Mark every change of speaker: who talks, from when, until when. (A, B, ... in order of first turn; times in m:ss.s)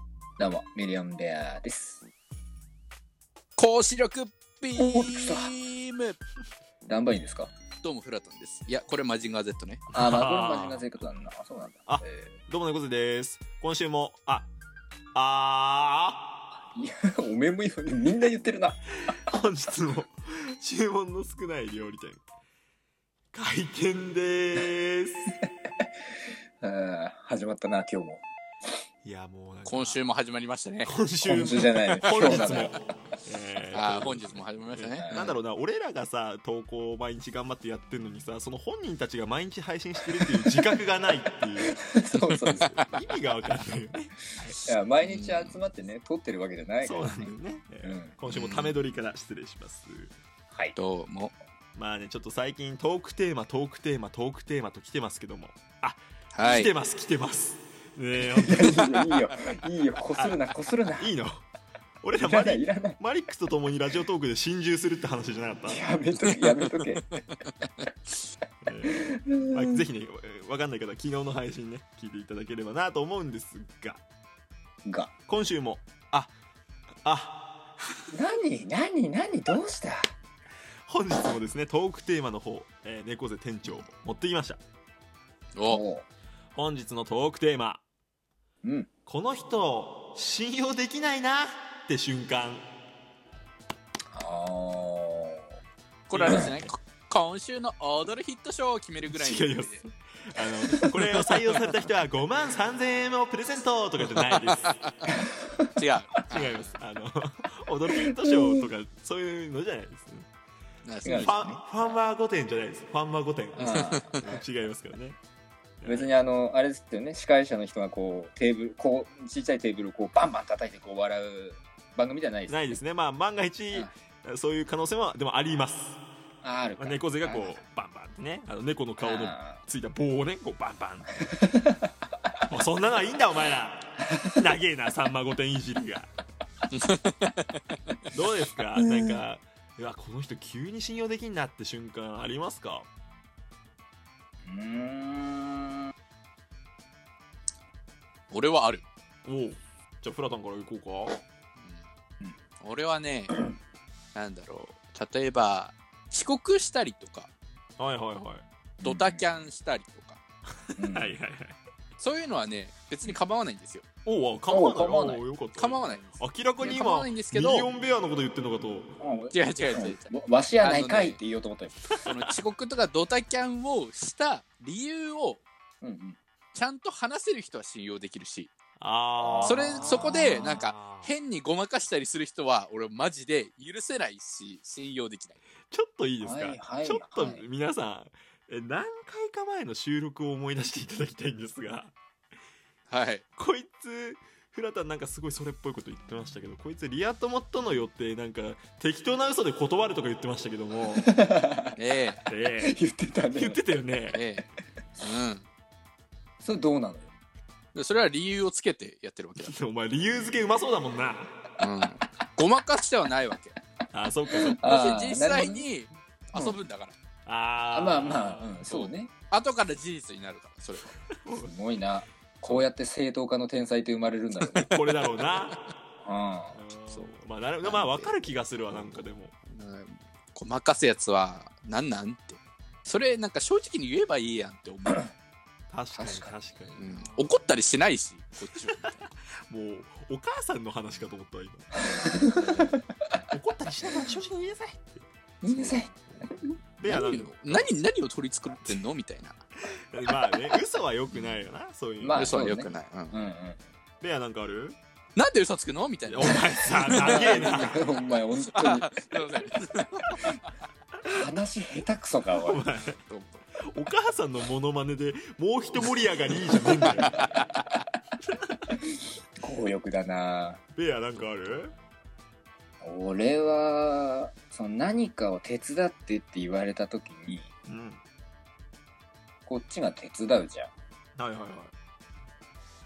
0:00.4-0:02.0 A
0:03.6-0:06.2 B
0:04.8-0:05.5 A
0:06.8-0:07.5 A
0:07.8-0:09.9 B
0:09.9-0:10.9 C
0:09.9-0:12.4 A
0:11.9-0:14.5 C
0:15.1-0:16.3 C
0:16.7-0:19.1 A
0:19.0-0:22.2 C
0:23.3-0:25.3 C
0:26.6-0:28.2 A
0:29.0-0:30.0 C
0:29.6-0:30.9 B
0:30.8-0:41.8 C
0:31.2-0:32.8 A
0:31.7-0:32.6 B
0:33.7-0:35.2 B
0:35.0-0:35.4 A
0:40.2-0:40.6 A
0:41.7-0:42.8 A
0:42.4-0:44.6 C
0:42.6-0:42.8 B
0:44.6-0:48.1 A
0:45.0-0:45.6 B
0:46.8-0:50.1 C
0:48.3-0:48.8 B
0:50.7-0:51.3 B
0:51.7-0:59.2 C
0:56.3-0:56.7 B
0:58.2-1:01.1 A
1:00.2-1:00.4 C
1:01.0-1:01.4 C
1:02.0-1:05.8 C
1:02.2-1:03.0 A
1:05.7-1:07.2 A
1:06.4-1:06.6 B
1:08.6-1:14.0 C
1:08.9-1:09.8 A
1:14.8-1:15.1 A
1:15.3-1:16.3 C
1:17.0-1:17.5 C
1:18.1-1:20.1 A
1:20.8-1:24.6 C
1:25.6-1:25.8 B
1:25.7-1:26.1 A
1:26.5-1:27.8 C
1:28.6-1:28.9 A
1:29.0-1:32.6 C
1:34.1-1:35.6 A
1:36.1-1:39.8 B
1:36.1-1:36.7 C
1:39.0-1:44.7 C
1:40.7-1:41.6 B
1:44.2-1:44.7 B
1:45.8-1:46.7 B
1:46.2-1:50.3 C
1:48.0-1:48.7 A
1:50.8-1:51.4 B
1:51.0-1:51.9 A
1:51.2-1:55.2 C
1:53.6-1:54.4 B
1:53.6-1:54.2 A
1:55.8-1:56.1 C
1:55.8-2:02.8 A
2:02.5-2:06.0 C
2:06.4-2:07.6 A
2:06.8-2:11.2 C
2:09.0-2:09.6 A
2:11.3-2:11.8 A
2:12.5-2:16.1 C
2:16.7-2:17.5 B
2:18.1-2:22.9 C
2:18.8-2:19.2 A
2:24.4-2:25.9 A
2:28.3-2:28.8 B
2:29.2-2:31.2 C
2:31.6-2:31.8 B
2:32.6-2:33.5 B
2:34.1-2:37.3 B
2:37.8-2:38.4 C
2:38.8-2:39.3 A
2:38.8-2:40.2 B
2:40.8-2:41.1 A
2:40.8-2:41.6 C
2:42.0-2:43.8 B
2:44.0-2:48.9 C
2:44.5-2:45.2 A
2:45.6-2:47.7 B
2:49.0-2:52.0 A
2:49.3-2:51.2 B
2:52.0-2:52.3 C
2:52.0-2:55.4 B
2:55.8-2:56.2 A
2:56.5-2:58.5 B
2:58.8-3:01.1 C
2:59.2-3:00.2 A
2:59.4-3:05.4 B
3:05.7-3:11.9 C
3:06.2-3:07.4 A
3:12.9-3:13.2 B
3:13.4-3:21.1 C
3:21.0-3:21.7 A
3:21.8-3:22.2 B
3:22.3-3:22.8 C
3:22.6-3:23.6 A
3:23.3-3:24.2 C
3:24.1-3:24.4 B
3:25.0-3:25.4 B
3:26.4-3:27.1 A
3:27.7-3:29.5 B
3:29.4-3:31.3 C
3:31.6-3:33.6 B
3:33.9-3:34.6 C
3:34.5-3:35.6 A
3:34.6-3:36.9 B
3:37.2-3:38.6 C
3:37.7-3:39.1 A
3:38.6-3:40.9 B
3:41.1-3:41.5 C
3:41.3-3:44.7 A
3:44.4-3:45.5 B
3:44.6-3:45.6 C
3:46.0-3:46.6 A
3:46.5-3:49.3 C
3:46.9-3:48.2 B
3:48.7-3:55.1 B
3:55.7-3:57.4 C
3:55.9-3:56.4 A
3:56.8-3:58.9 B
3:58.6-3:59.0 C
3:59.5-4:01.7 C
4:01.9-4:02.8 A
4:02.1-4:02.7 B
4:03.3-4:06.2 C
4:05.4-4:06.5 A
4:06.8-4:07.7 C
4:06.8-4:09.4 B
4:09.9-4:12.4 C
4:12.0-4:13.6 A
4:12.1-4:13.2 B
4:14.0-4:14.8 C
4:15.2-4:20.4 B
4:16.0-4:17.8 C
4:16.9-4:19.2 A
4:21.0-4:22.6 A
4:22.4-4:23.0 C
4:22.8-4:23.4 B
4:23.6-4:27.2 C
4:26.5-4:27.4 B
4:29.4-4:30.6 A
4:30.8-4:31.7 C
4:32.8-4:37.5 A
4:37.7-4:38.0 C
4:39.4-4:40.7 A
4:41.2-4:41.7 C